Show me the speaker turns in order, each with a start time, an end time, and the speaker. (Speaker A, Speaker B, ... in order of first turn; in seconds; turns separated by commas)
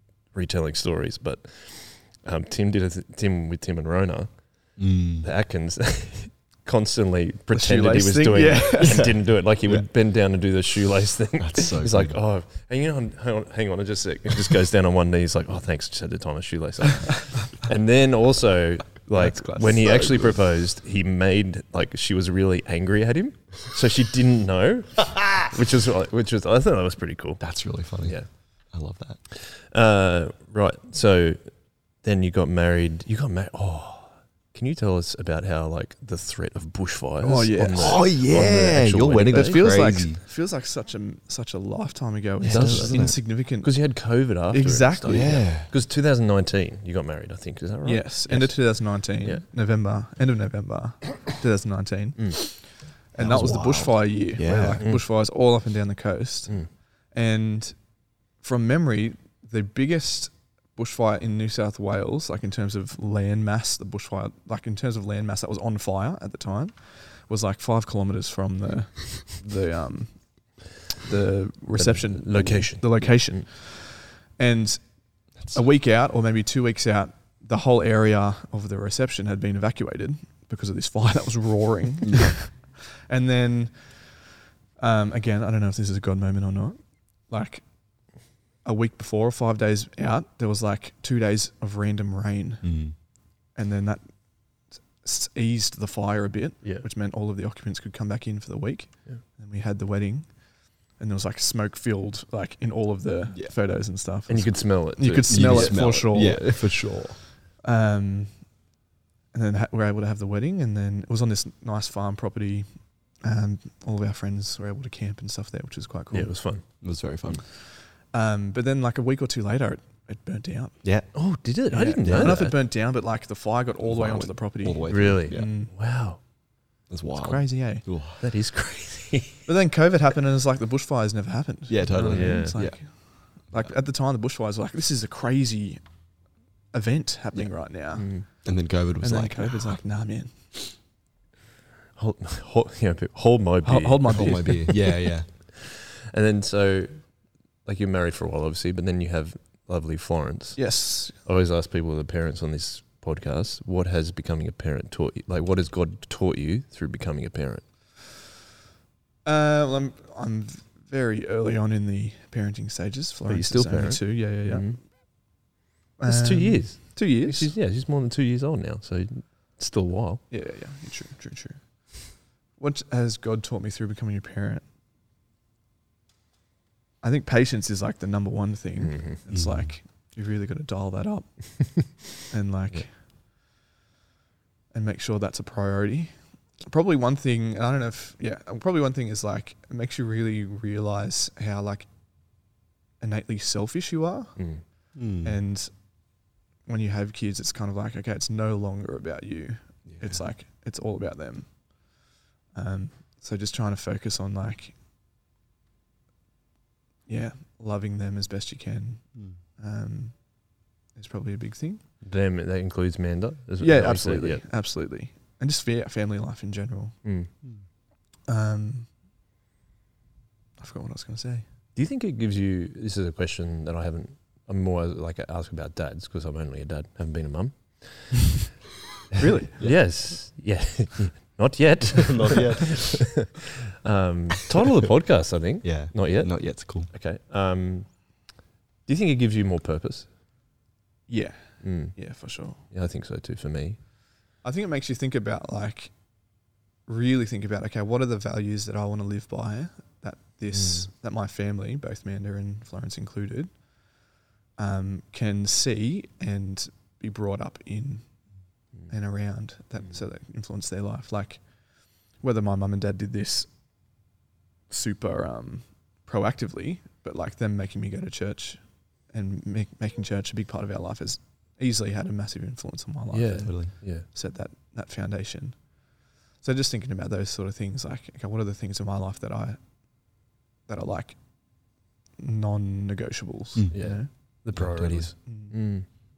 Speaker A: 0.3-28.3, Speaker B: 4.8-5.3, Speaker C: 7.5-9.2, Speaker B: 8.8-9.9, Speaker B: 11.4-12.2, Speaker C: 19.1-20.3, Speaker B: 27.4-29.2, Speaker A: 29.3-39.7, Speaker C: 37.2-38.1, Speaker B: 37.7-40.2, Speaker C: 39.3-45.4, Speaker B: 42.4-43.1, Speaker A: 42.5-49.4, Speaker B: 45.1-45.7, Speaker C: 47.8-57.8, Speaker B: 53.2-54.8, Speaker A: 54.8-55.0, Speaker C: 58.4-87.6, Speaker A: 71.7-73.4, Speaker B: 82.0-82.3, Speaker C: 88.6-92.7, Speaker B: 92.6-92.9, Speaker C: 93.5-94.0, Speaker C: 95.0-106.9, Speaker A: 104.3-106.4, Speaker B: 105.3-107.2, Speaker C: 107.6-108.5, Speaker C: 109.3-116.4, Speaker A: 116.1-116.7, Speaker B: 116.8-117.4, Speaker C: 117.5-120.8, Speaker B: 120.8-121.1, Speaker A: 121.1-122.5, Speaker C: 121.7-125.7, Speaker B: 122.0-122.5, Speaker B: 123.8-125.5, Speaker A: 124.9-126.2, Speaker B: 126.9-128.2, Speaker C: 127.1-127.8, Speaker A: 128.2-129.5, Speaker C: 129.5-135.8, Speaker B: 131.7-132.8, Speaker A: 132.1-132.6, Speaker C: 136.7-138.4, Speaker A: 137.9-138.2, Speaker B: 138.2-139.8, Speaker C: 139.0-140.6, Speaker A: 141.9-144.9, Speaker C: 143.6-144.8, Speaker B: 144.1-145.3, Speaker A: 145.6-147.1, Speaker A: 147.6-157.6, Speaker C: 150.6-151.2, Speaker C: 159.2-164.9, Speaker A: 163.3-164.8, Speaker C: 166.0-167.5, Speaker A: 166.1-170.2, Speaker C: 170.3-174.6, Speaker C: 177.0-182.9, Speaker A: 178.8-179.2, Speaker B: 179.3-179.7, Speaker C: 184.7-191.9, Speaker C: 193.0-194.6, Speaker A: 194.3-194.6, Speaker B: 194.9-195.4, Speaker C: 195.2-195.7, Speaker C: 196.7-201.6, Speaker B: 199.9-200.2, Speaker C: 202.5-204.7, Speaker C: 207.1-210.3, Speaker C: 210.9-211.8, Speaker A: 212.0-214.4, Speaker C: 213.6-217.0, Speaker A: 217.0-217.3, Speaker C: 218.3-218.9, Speaker C: 220.6-221.4, Speaker A: 221.7-228.4, Speaker C: 229.2-229.6, Speaker A: 229.6-238.1, Speaker B: 232.0-233.1, Speaker B: 235.6-236.9, Speaker A: 238.8-240.1, Speaker C: 241.1-242.6, Speaker A: 241.6-242.0, Speaker A: 242.6-243.8, Speaker C: 244.4-245.9, Speaker C: 246.9-253.5, Speaker A: 250.5-250.8, Speaker C: 254.6-258.0, Speaker C: 258.9-261.5, Speaker C: 262.2-263.5, Speaker C: 264.7-275.7, Speaker A: 273.1-274.1, Speaker C: 276.4-281.2, Speaker C: 282.2-284.1, Speaker B: 283.5-283.8, Speaker A: 283.7-285.9, Speaker B: 284.5-285.1, Speaker C: 285.2-285.5